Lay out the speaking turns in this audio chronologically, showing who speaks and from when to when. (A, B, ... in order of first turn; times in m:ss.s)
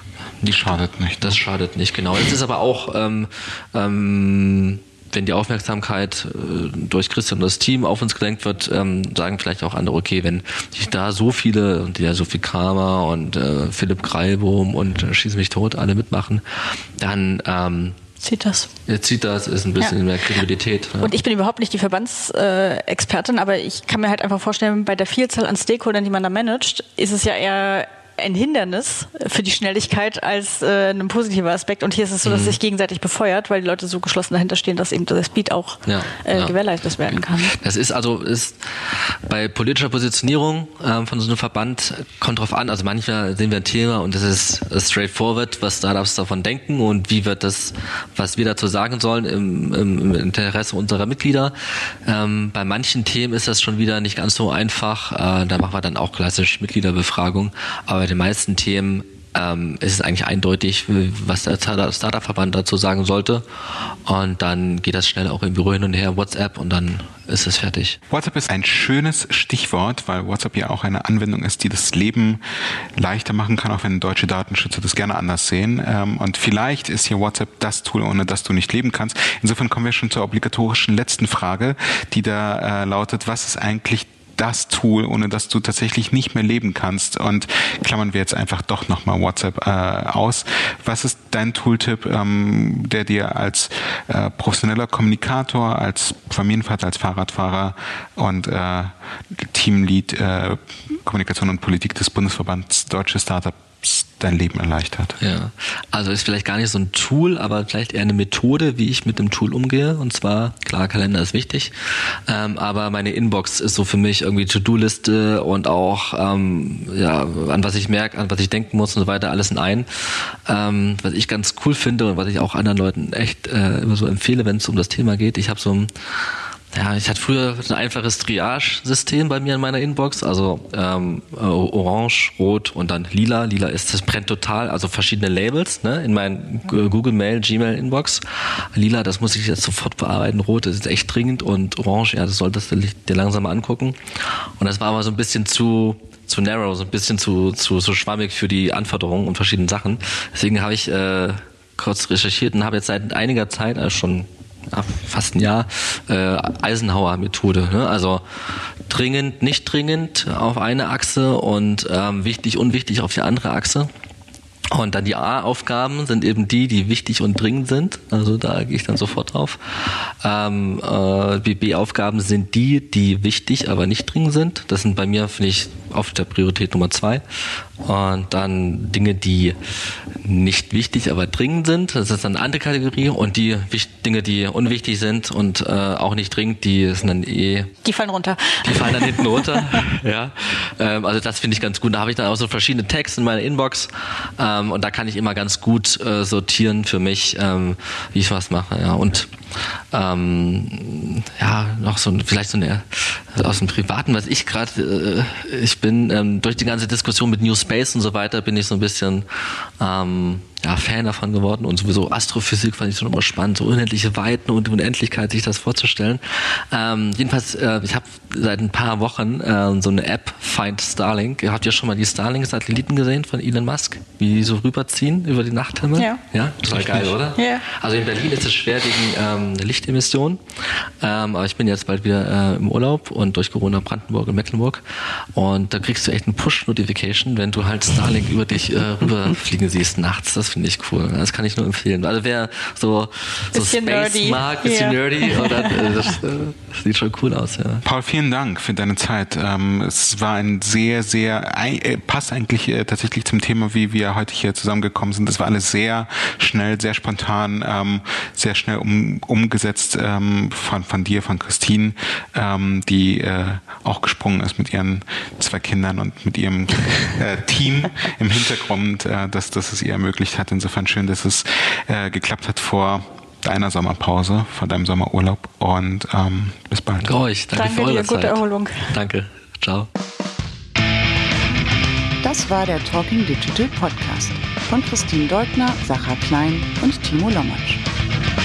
0:00.4-0:18.0 A
0:00.4-0:01.4 B
0:18.2-0:18.7 C
0:18.9-0:21.1 A
0:21.0-0:37.5 C
0:32.2-0:32.6 A
0:35.9-0:36.6 A
0:37.1-1:03.4 A
1:04.0-1:08.0 A
1:08.1-1:45.2 B
1:45.2-2:43.9 A
2:44.7-2:59.6 A
3:00.2-3:07.7 A
3:07.8-3:09.8 C
3:08.6-4:07.8 A
3:46.8-3:47.1 B
3:47.3-3:47.7 C
4:03.5-4:06.2 C
4:07.8-4:37.1 B
4:37.0-4:39.9 A
4:37.5-4:38.9 C
4:42.2-4:47.8 D